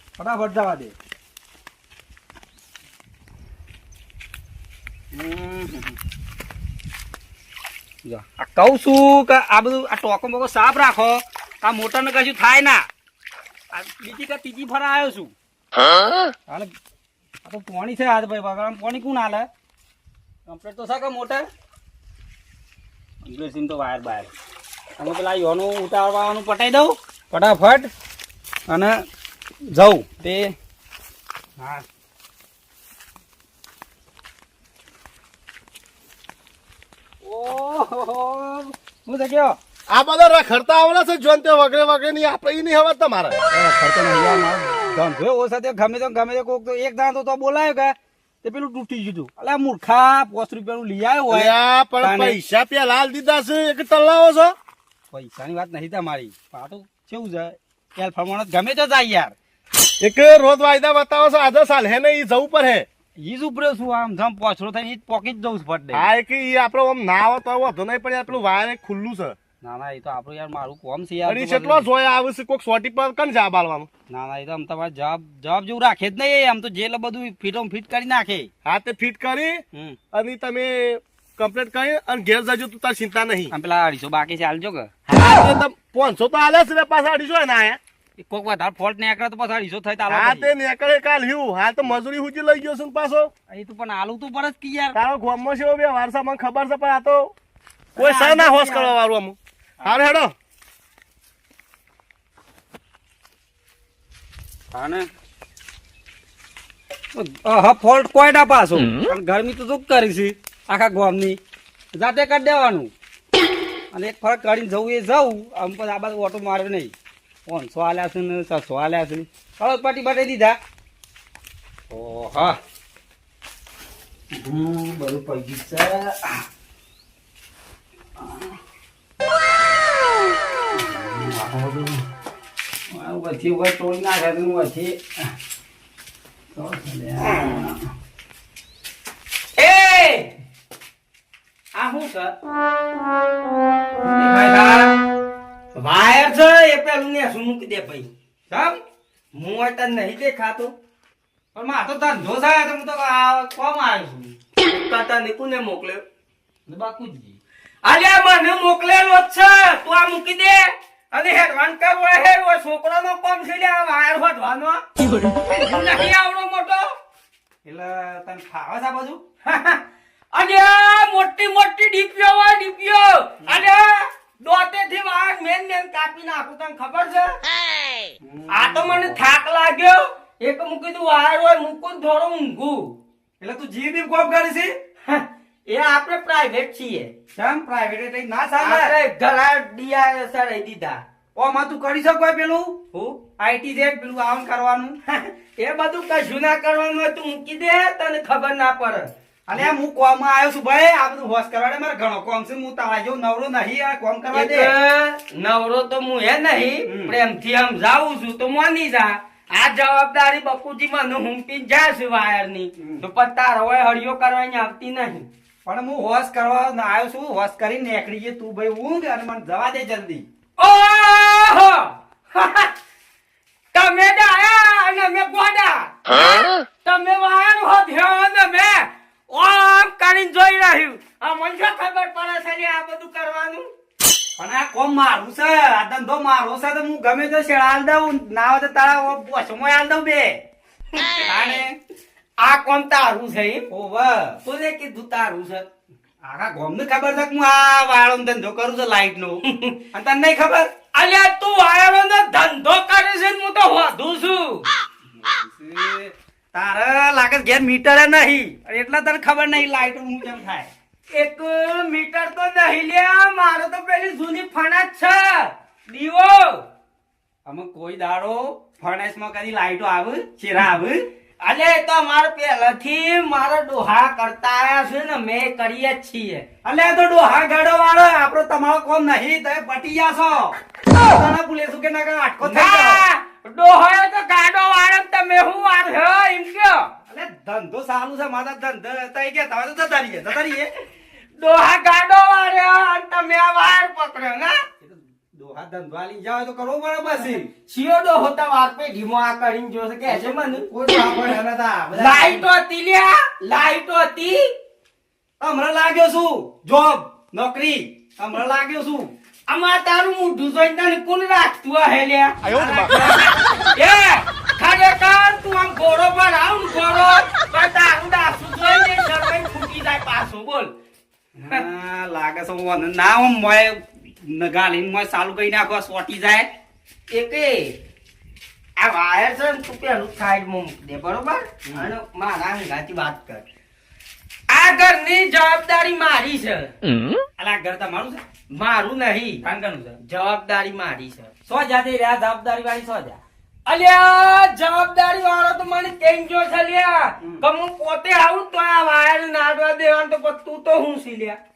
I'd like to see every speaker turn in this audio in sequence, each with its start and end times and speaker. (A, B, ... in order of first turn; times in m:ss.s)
0:00.2-0:01.0 A
0:05.1-0:06.0 A
0:08.0-0:12.9 A
0:13.7-0:15.3 A
0:17.4-0:19.5 A
0:20.5-0:21.5 A
0:23.2-0:24.3 A
0:25.0-0:27.9 A
0:28.7-0:29.0 A
0:29.7-0:30.6 A
0:31.6-0:31.8 A
0:37.2-0:39.6 A
0:39.9-0:43.4 B
0:43.5-0:52.4 A
0:51.3-0:54.6 B
0:55.1-0:59.4 A
1:00.0-1:02.9 B
1:03.2-1:06.1 A
1:05.9-1:09.4 B
1:09.6-1:11.8 A
1:11.3-1:13.9 B
1:14.1-1:18.5 A
1:18.6-1:23.5 B
1:23.5-1:24.9 A
1:25.1-1:27.8 B
1:28.2-1:30.5 A
1:30.1-1:33.3 B
1:33.5-1:35.0 A
1:34.9-1:37.3 B
1:38.0-1:39.0 A
1:38.0-1:40.3 B
1:44.7-1:45.1 A
1:47.1-1:51.4 A
1:52.0-1:52.9 A
1:53.9-1:56.9 A
1:57.5-2:00.6 A
2:01.9-2:02.6 A
2:04.3-2:06.4 A
2:08.2-2:08.6 A
2:10.8-2:12.0 A
2:12.9-2:15.0 A
2:16.5-2:17.8 A
2:19.6-2:20.3 C
2:21.8-2:22.4 C
2:24.0-2:25.0 A
2:25.8-2:28.1 C
2:28.5-2:28.8 A
2:29.3-2:30.7 C
2:31.6-2:33.7 A
2:33.0-2:36.0 C
2:36.7-2:37.4 A
2:37.8-2:46.9 C
2:47.6-2:49.2 A
2:49.4-2:49.8 C
2:50.3-2:57.4 C
2:58.2-2:59.2 A
2:58.5-3:03.0 C
3:03.4-3:04.7 A
3:05.0-3:07.1 C
3:07.4-3:08.9 A
3:08.6-3:11.0 C
3:11.4-3:15.0 A
3:15.1-3:19.7 C
3:19.5-3:24.7 A
3:24.3-3:35.3 C
3:26.9-3:27.2 A
3:32.8-3:33.0 A
3:35.6-3:40.3 A
3:40.6-3:42.7 C
3:43.7-3:53.7 C
3:47.1-3:48.3 A
3:54.4-4:00.4 A
4:01.0-4:01.6 C
4:01.2-4:01.8 A
4:02.4-4:03.7 C
4:03.7-4:04.4 A
4:04.4-4:05.7 C
4:06.2-4:10.8 A
4:09.4-4:09.8 C
4:10.9-4:14.7 C
4:15.2-4:20.7 A
4:21.1-4:26.6 C
4:27.4-4:31.0 A
4:31.4-4:36.5 C
4:36.6-4:43.0 A
4:42.4-4:46.9 C
4:47.0-4:50.7 A
4:51.4-4:54.6 C
4:54.8-4:57.5 A
4:57.2-5:00.7 C
5:00.1-5:02.5 A
5:01.9-5:04.5 C
5:05.4-5:09.1 A
5:09.5-5:20.7 C
5:12.5-5:14.2 A
5:21.4-5:26.5 A
5:27.1-5:27.8 C
5:28.8-5:33.4 C
5:31.7-5:31.9 A
5:34.5-5:36.7 C
5:37.4-5:38.2 A
5:38.5-5:39.4 C
5:39.4-5:40.0 A
5:40.0-5:41.3 C
5:41.5-5:43.2 A
5:43.7-5:51.4 C